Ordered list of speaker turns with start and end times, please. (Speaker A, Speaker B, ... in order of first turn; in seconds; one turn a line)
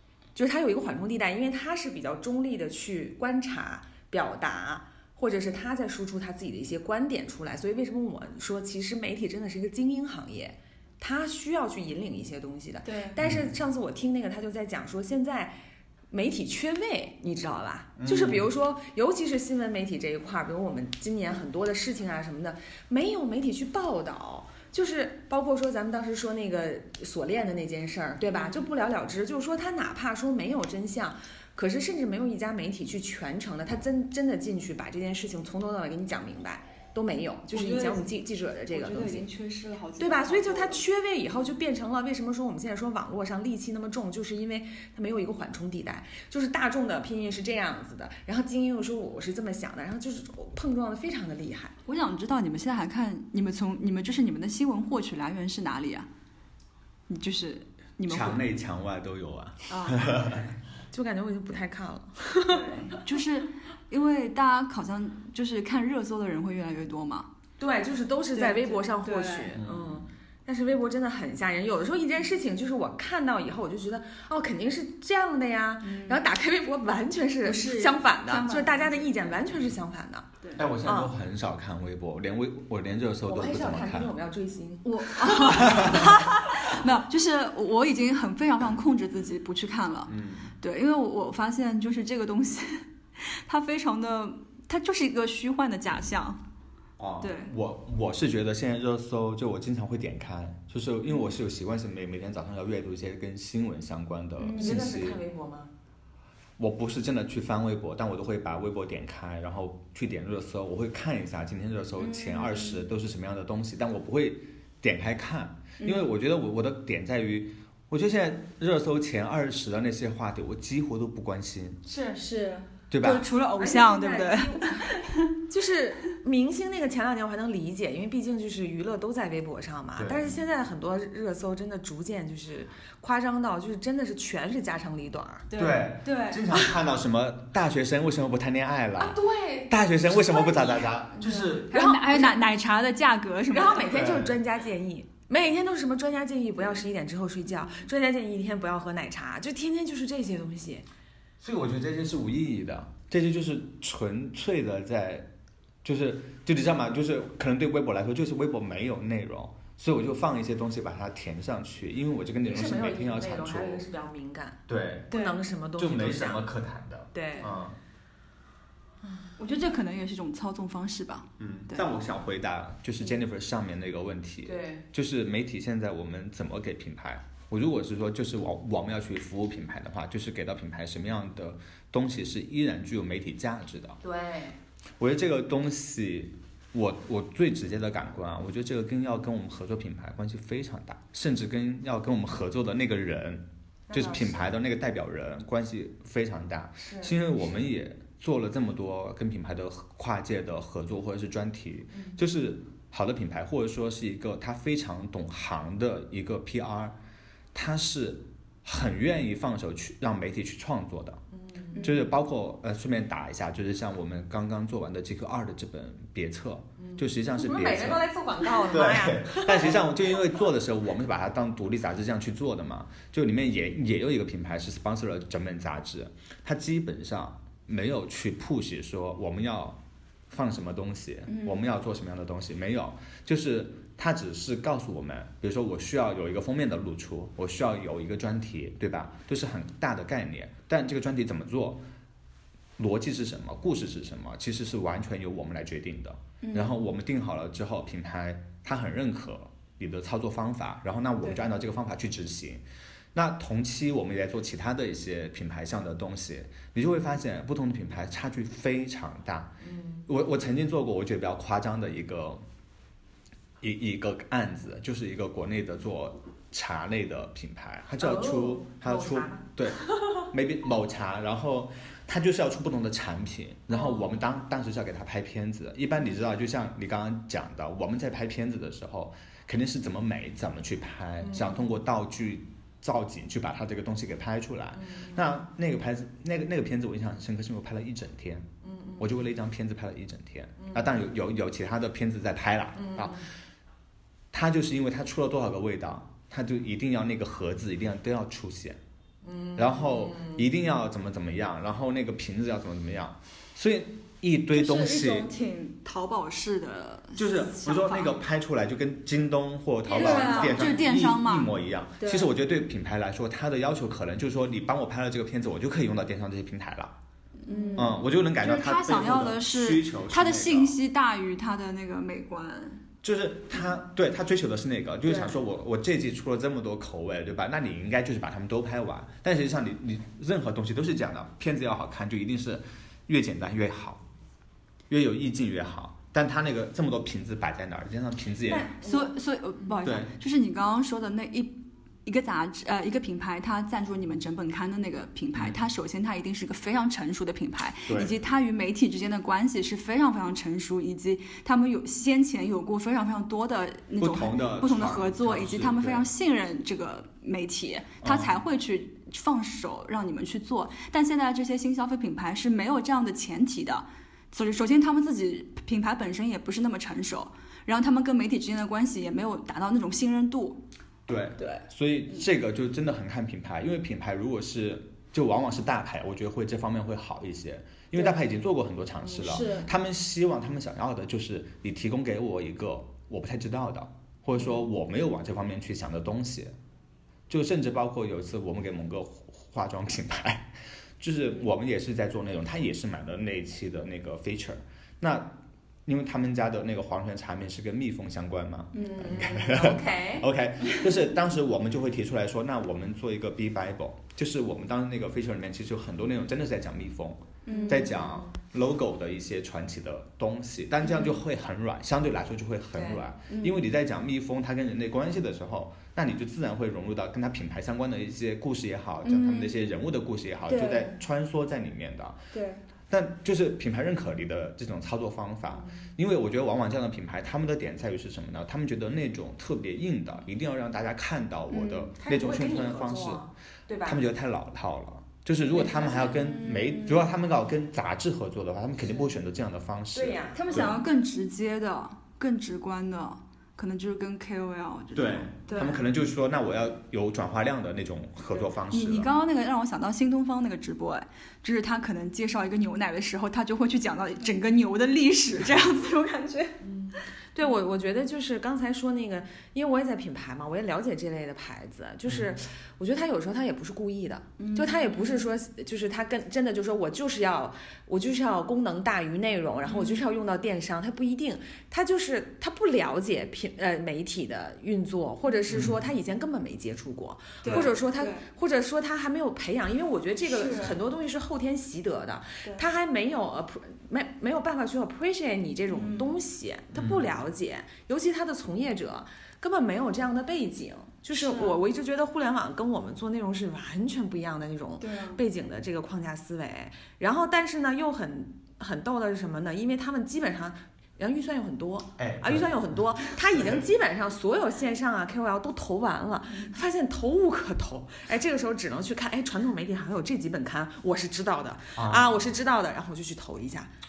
Speaker A: 0.3-15.6
Speaker B: 12.9-13.2
Speaker C: 13.2-13.5
Speaker A: 16.1-39.2
Speaker C: 18.0-18.5
Speaker B: 28.3-28.6
Speaker B: 37.5-38.1
Speaker B: 38.7-40.8
Speaker A: 40.0-51.7
Speaker B: 51.9-56.1
Speaker B: 57.1-58.5
Speaker C: 58.1-60.4
Speaker B: 59.7-60.1
Speaker A: 60.9-62.8
Speaker B: 62.5-67.3
Speaker A: 67.6-80.3
Speaker B: 68.3-69.5
Speaker C: 69.5-70.1
Speaker B: 75.8-76.2
Speaker B: 77.4-79.4
Speaker C: 80.5-84.1
Speaker A: 80.8-81.1
Speaker A: 83.2-85.6
Speaker B: 84.8-96.4
Speaker C: 85.4-86.1
Speaker C: 90.1-90.5
Speaker C: 97.0-105.2
Speaker B: 97.2-97.5
Speaker B: 101.0-101.3
Speaker B: 104.4-104.9
Speaker A: 104.5-105.7
Speaker C: 106.6-121.8
Speaker B: 112.0-112.8
Speaker B: 115.8-116.1
Speaker B: 121.9-125.3
Speaker C: 122.9-123.2
Speaker A: 123.5-135.5
Speaker C: 129.9-130.4
Speaker B: 135.5-136.6
Speaker C: 135.5-141.8
Speaker A: 138.9-140.9
Speaker B: 141.2-143.9
Speaker A: 141.7-142.4
Speaker A: 143.5-150.8
Speaker C: 143.9-144.4
Speaker C: 151.4-155.3
Speaker C: 155.8-163.8
Speaker A: 162.4-166.4
Speaker C: 164.7-165.1
Speaker B: 165.1-165.4
Speaker C: 165.8-167.8
Speaker A: 167.1-167.5
Speaker B: 169.3-171.9
Speaker C: 171.4-184.0
Speaker A: 174.4-174.8
Speaker A: 184.0-184.6
Speaker C: 185.0-206.9
Speaker A: 193.9-194.5
Speaker A: 196.8-197.2
Speaker A: 201.9-202.2
Speaker C: 207.5-211.2
Speaker A: 211.3-211.8
Speaker B: 211.7-212.0
Speaker C: 211.8-218.0
Speaker A: 216.8-219.8
Speaker C: 218.7-241.8
Speaker B: 231.3-231.6
Speaker C: 242.8-252.6
Speaker B: 246.4-246.7
Speaker C: 253.1-262.4
Speaker A: 259.6-260.0
Speaker C: 263.6-293.2
Speaker A: 268.0-269.4
Speaker A: 281.2-281.6
Speaker A: 284.7-285.2
Speaker A: 288.6-289.1
Speaker A: 290.6-290.9
Speaker A: 292.8-293.3
Speaker C: 294.3-298.8
Speaker A: 299.2-300.5
Speaker C: 299.6-305.3
Speaker B: 304.5-308.2
Speaker C: 307.1-316.9
Speaker A: 309.9-310.7
Speaker B: 309.9-312.3
Speaker B: 317.4-322.8
Speaker C: 317.7-320.8
Speaker C: 323.0-334.0
Speaker B: 325.1-325.4
Speaker C: 334.9-338.7
Speaker B: 338.5-370.6
Speaker C: 339.8-340.1
Speaker C: 347.9-348.1
Speaker C: 354.0-356.1
Speaker C: 358.0-358.4
Speaker C: 371.1-386.5
Speaker B: 371.4-371.6
Speaker B: 379.1-379.7
Speaker B: 384.3-384.7
Speaker C: 387.3-422.2
Speaker B: 398.7-399.1
Speaker A: 398.8-400.3
Speaker B: 407.4-407.9
Speaker A: 407.5-408.3
Speaker B: 410.9-411.1
Speaker A: 412.7-413.0
Speaker B: 413.3-413.6
Speaker B: 419.0-419.6
Speaker B: 420.5-420.9
Speaker B: 422.3-422.6
Speaker C: 422.9-433.2
Speaker B: 431.5-431.9
Speaker A: 432.0-434.0
Speaker C: 433.8-440.8
Speaker B: 435.5-437.1
Speaker A: 439.9-440.8
Speaker B: 440.3-445.8
Speaker C: 444.9-449.1
Speaker B: 448.7-456.6
Speaker A: 456.6-513.7
Speaker B: 464.4-465.3
Speaker B: 469.6-470.0
Speaker C: 475.5-475.8
Speaker B: 477.4-478.2
Speaker B: 480.3-480.8
Speaker B: 485.7-486.1
Speaker C: 486.7-487.1
Speaker B: 491.1-491.6
Speaker B: 494.8-495.2
Speaker C: 502.0-502.8
Speaker C: 503.3-503.6
Speaker C: 511.8-512.1